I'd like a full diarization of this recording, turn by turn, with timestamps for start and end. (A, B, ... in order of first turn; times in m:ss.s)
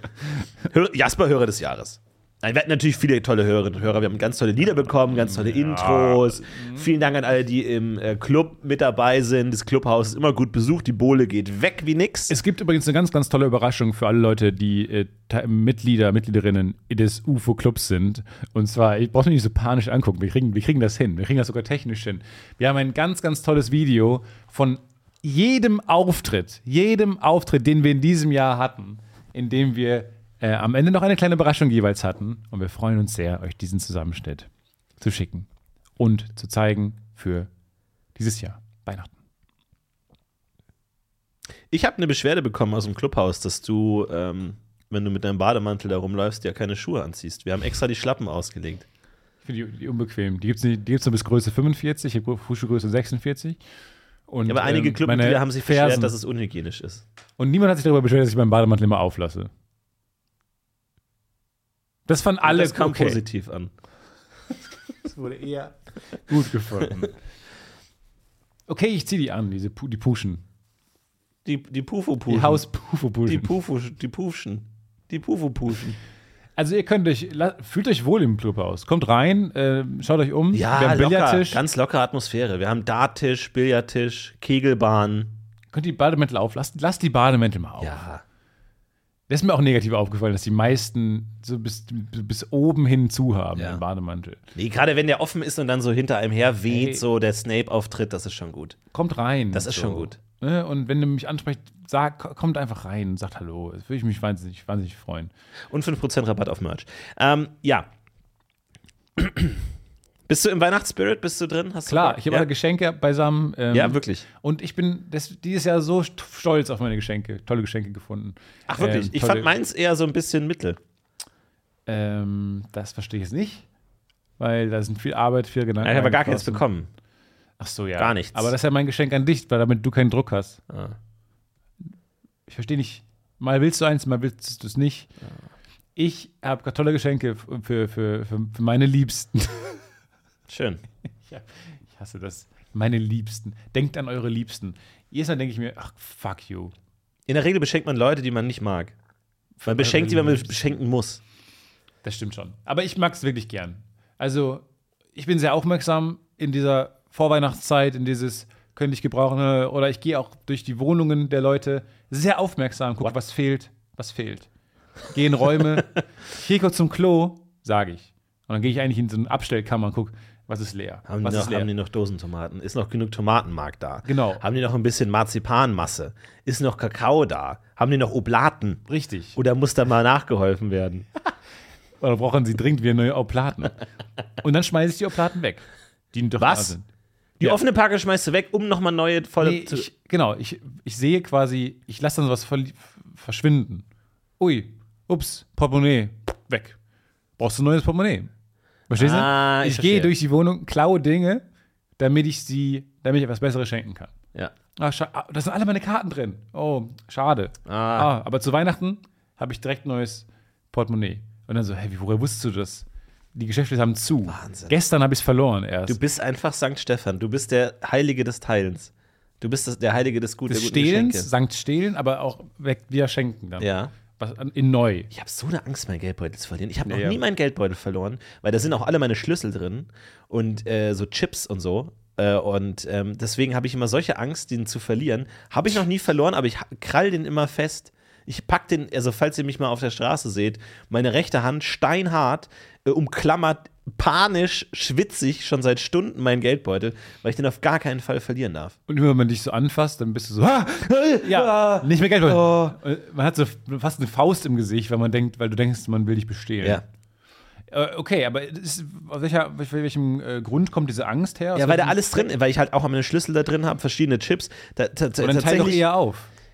0:00.6-0:12.3 A
0:05.2-0:06.9 B
0:12.3-0:34.5 B
0:35.0-0:35.5 B
0:36.0-0:37.5 B
0:38.2-0:39.1 B
0:41.7-0:48.8 A
0:49.4-0:53.6 B
0:54.3-0:56.1 B
0:54.4-0:57.0 A
0:57.4-0:59.5 B
1:02.1-1:03.2 B
1:02.4-1:03.7 A
1:05.0-1:05.7 B
1:06.2-1:07.1 B
1:08.7-1:10.4 B
1:11.4-1:12.6 A
1:12.3-1:13.5 B
1:13.3-1:16.0 A
1:16.6-1:21.6 B
1:20.5-1:25.4 A
1:25.7-1:28.0 B
1:27.8-1:28.2 A
1:29.3-1:34.4 B
1:33.6-1:33.8 A
1:34.5-1:38.8 A
1:36.7-1:37.0 B
1:38.9-1:45.3 B
1:39.5-1:40.2 A
1:45.7-1:47.9 A
1:49.2-1:49.6 A
1:50.3-1:52.5 A
1:51.8-1:59.5 B
1:53.7-1:54.2 A
1:58.7-2:00.8 A
2:01.9-2:03.6 B
2:04.4-2:06.6 B
2:05.8-2:06.9 A
2:07.6-2:10.6 B
2:08.0-2:08.5 A
2:10.7-2:10.9 A
2:12.5-2:15.1 B
2:16.0-2:19.8 B
2:20.5-2:20.8 A
2:21.3-2:26.7 B
2:27.3-2:28.9 A
2:29.6-2:30.7 B
2:29.6-2:31.2 A
2:32.0-2:34.6 B
2:35.1-2:44.5 B
2:45.1-2:51.7 B
2:51.1-2:58.8 A
2:54.0-2:54.4 B
2:58.9-2:59.4 B
2:59.4-3:01.0 A
3:02.0-3:03.8 B
3:04.4-3:06.8 B
3:06.4-3:06.7 A
3:07.4-3:09.9 A
3:09.4-3:13.8 B
3:14.4-3:16.8 B
3:17.4-3:18.3 B
3:18.9-3:21.4 B
3:19.0-3:20.1 A
3:22.0-3:24.1 B
3:24.8-3:36.0 B
3:27.6-3:28.1 A
3:34.3-3:34.7 A
3:35.9-3:41.3 A
3:40.5-3:45.1 B
3:43.6-3:43.9 A
3:45.1-4:08.8 A
3:46.8-3:47.2 B
4:08.9-4:16.8 B
4:10.7-4:12.8 A
4:17.7-4:22.2 B
4:21.6-4:25.8 A
4:25.2-4:26.3 B